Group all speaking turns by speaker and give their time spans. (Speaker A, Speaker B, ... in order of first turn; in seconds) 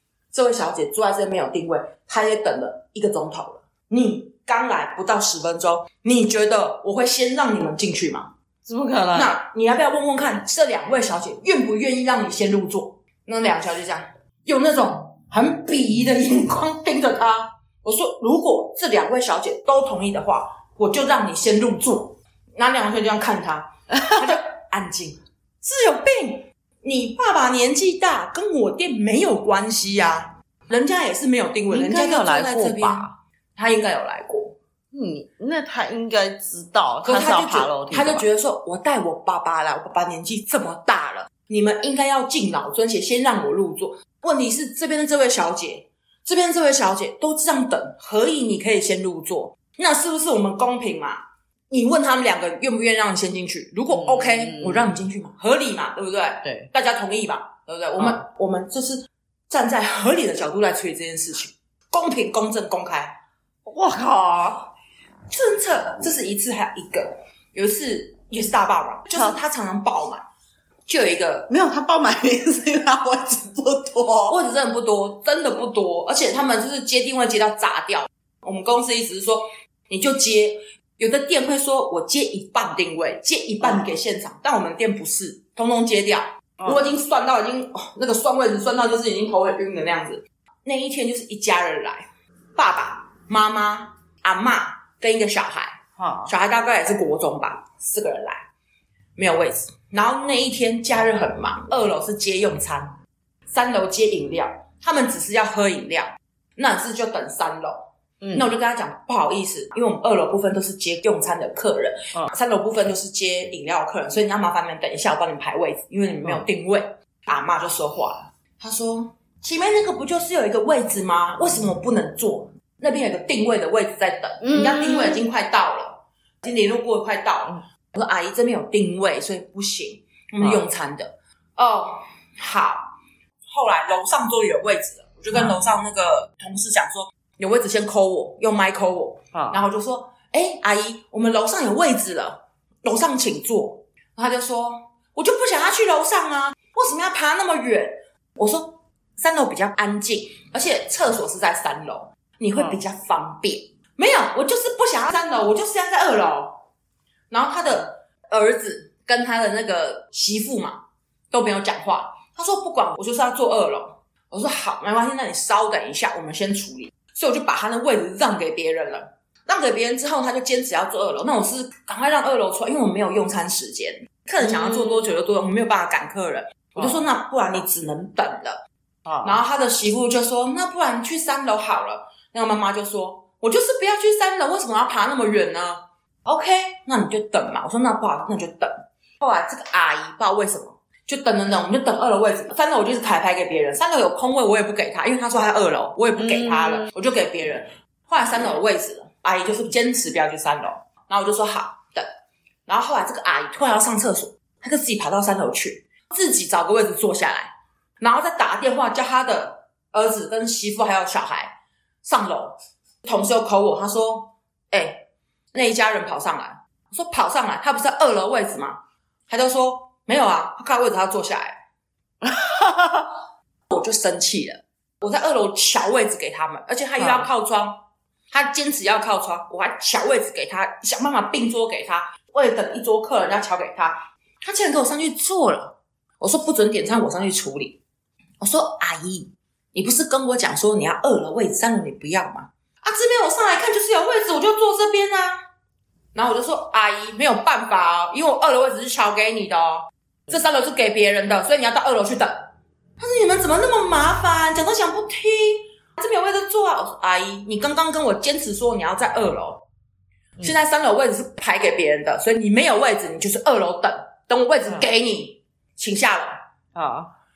Speaker A: 0.3-8.3, 9.1-34.5, 37.0-63.1, 65.3-70.2, 70.9-71.5, 74.3-98.4, 99.2-102.9, 103.5-132.9, 133.4-156.6, 157.3-178.6, 179.2-202.1, 202.7-221.6, 223.7-237.8, 238.4-245.4, 246.1-259.6, 260.4-266.4
Speaker B: 8.7-9.4, 23.9-24.3, 31.7-33.1, 34.9-38.2, 53.9-54.9, 63.6-64.7, 71.5-74.3, 86.6-86.8, 96.0-96.3, 108.2-108.5, 124.4-125.2, 139.3-139.6, 174.4-175.0, 179.1-179.4, 196.2-196.9, 222.2-223.1, 227.0-227.3, 266.7-267.1